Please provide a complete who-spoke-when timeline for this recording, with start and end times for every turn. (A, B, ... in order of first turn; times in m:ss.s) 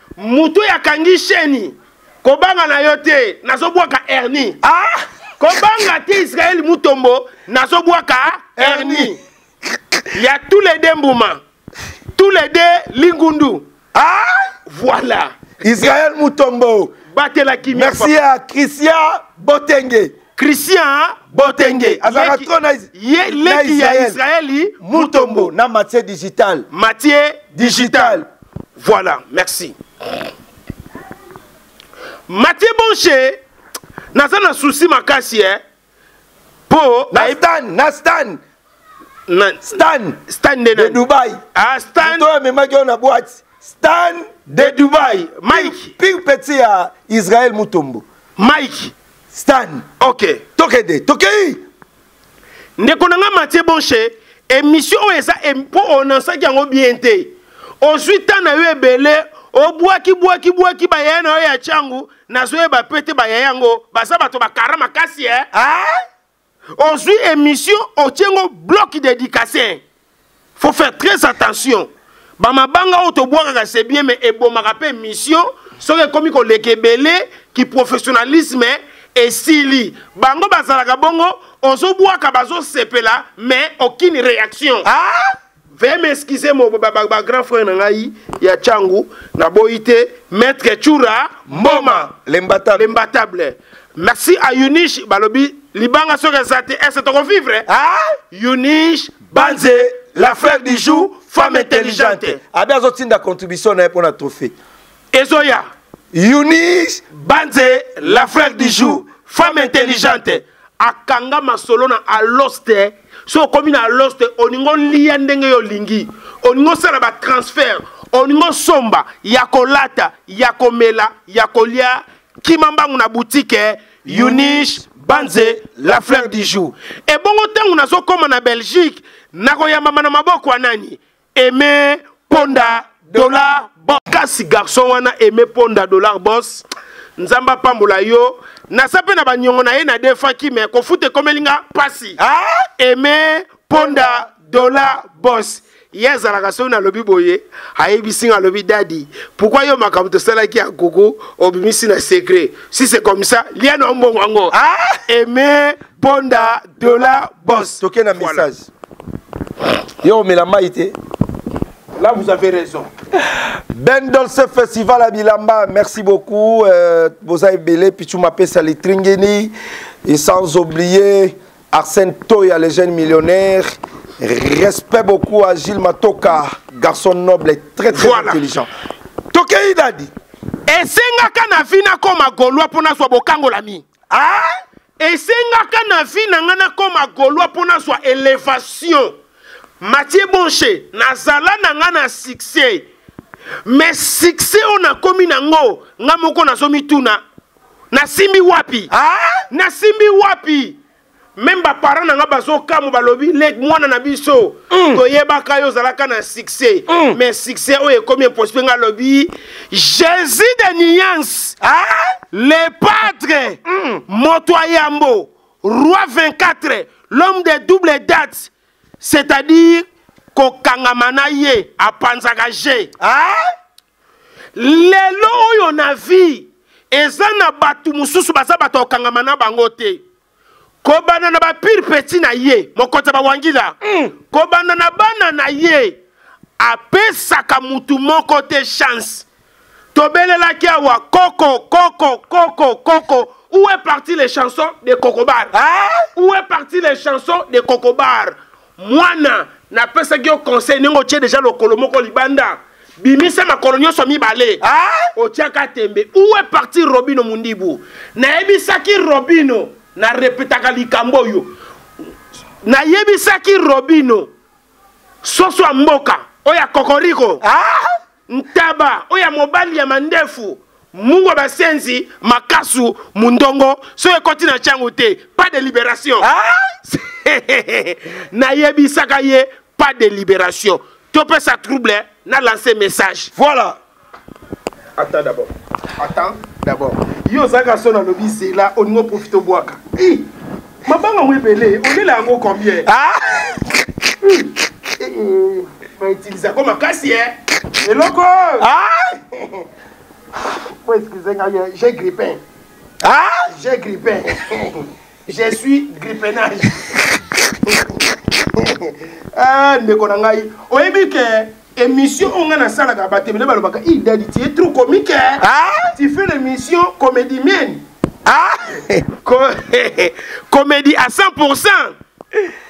0:00.2-0:04.6 A
0:04.6-0:05.0 B
0:05.4-0:09.2 A
0:08.6-0:09.2 B
0:10.1-0:11.4 A
0:12.2-0:13.6 A
0:13.9-0:14.5 B
0:14.7-0:15.9 A
0:15.6-0:16.9 B
0:17.1-0:18.2 A
0:17.7-0:20.1 B
0:20.4-0:25.5 A
0:21.3-0:24.2 B
0:24.8-0:26.7 B
0:26.7-0:28.2 A
0:27.5-0:28.3 B
0:28.8-0:29.8 A
0:32.3-0:33.4 A
0:34.1-0:35.6 A
0:36.7-0:37.4 A
0:37.1-0:38.4 B
0:39.3-0:41.0 A
0:39.6-0:40.2 B
0:40.7-0:41.4 B
0:41.6-0:42.2 A
0:42.0-0:48.0 B
0:44.6-0:45.9 A
0:48.4-0:48.9 A
0:49.3-0:49.9 B
0:50.0-0:50.4 A
0:50.6-0:51.6 B
0:52.8-1:05.5 A
1:05.5-1:06.0 B
1:06.8-1:09.8 A
1:10.6-1:24.9 A
1:24.8-1:25.3 B
1:25.8-1:32.1 A
1:31.5-1:32.9 B
1:32.7-1:37.6 A
1:37.7-1:38.2 B
1:38.3-1:42.4 A
1:39.3-1:44.5 B
1:45.1-1:45.7 A
1:46.1-1:47.0 B
1:47.1-2:16.6 A
1:48.0-1:50.4 B
2:04.1-2:06.6 B
2:12.3-2:13.4 B
2:17.2-2:22.2 A
2:22.2-2:22.7 B
2:22.8-2:34.6 A
2:23.7-2:24.3 B
2:34.5-2:35.0 B
2:35.1-2:38.4 A
2:36.8-2:38.7 B
2:40.0-2:40.9 B
2:42.0-2:42.9 A
2:43.2-2:49.5 B
2:50.0-2:58.7 B
2:57.9-2:58.4 A
2:59.3-3:00.1 B
3:00.7-3:03.8 A
3:04.1-3:04.5 B
3:05.0-3:09.1 A
3:09.8-3:12.9 A
3:13.6-3:17.2 A
3:17.9-3:18.9 A
3:18.9-3:19.4 B
3:19.5-3:20.8 A
3:21.4-3:31.6 A
3:24.7-3:25.0 B
3:26.9-3:27.2 B
3:31.6-3:32.2 B
3:32.3-3:38.5 A
3:33.6-3:34.0 B
3:39.0-3:42.9 A
3:43.0-3:43.5 B
3:44.6-3:50.0 A
3:50.8-3:56.0 A
3:53.8-3:54.1 B
3:56.6-3:59.2 A
3:59.9-4:05.5 A
4:05.5-4:06.1 B
4:06.1-4:14.6 A
4:14.6-4:15.1 B
4:15.1-4:21.5 A
4:22.6-4:24.3 A
4:25.2-4:27.4 A
4:27.4-4:27.9 B
4:28.3-4:36.3 A
4:36.2-4:36.7 B
4:36.9-4:43.3 A
4:43.4-4:43.8 B
4:45.0-4:50.2 A
4:50.9-4:52.9 A
4:52.9-4:53.6 B
4:55.0-4:58.7 A
4:58.6-4:59.2 B
5:00.8-5:02.4 A
5:03.0-5:03.5 B
5:03.5-5:06.9 A
5:09.3-5:15.4 A
5:15.4-5:15.9 B
5:15.9-5:17.8 A
5:18.3-5:19.0 B
5:19.2-5:21.9 A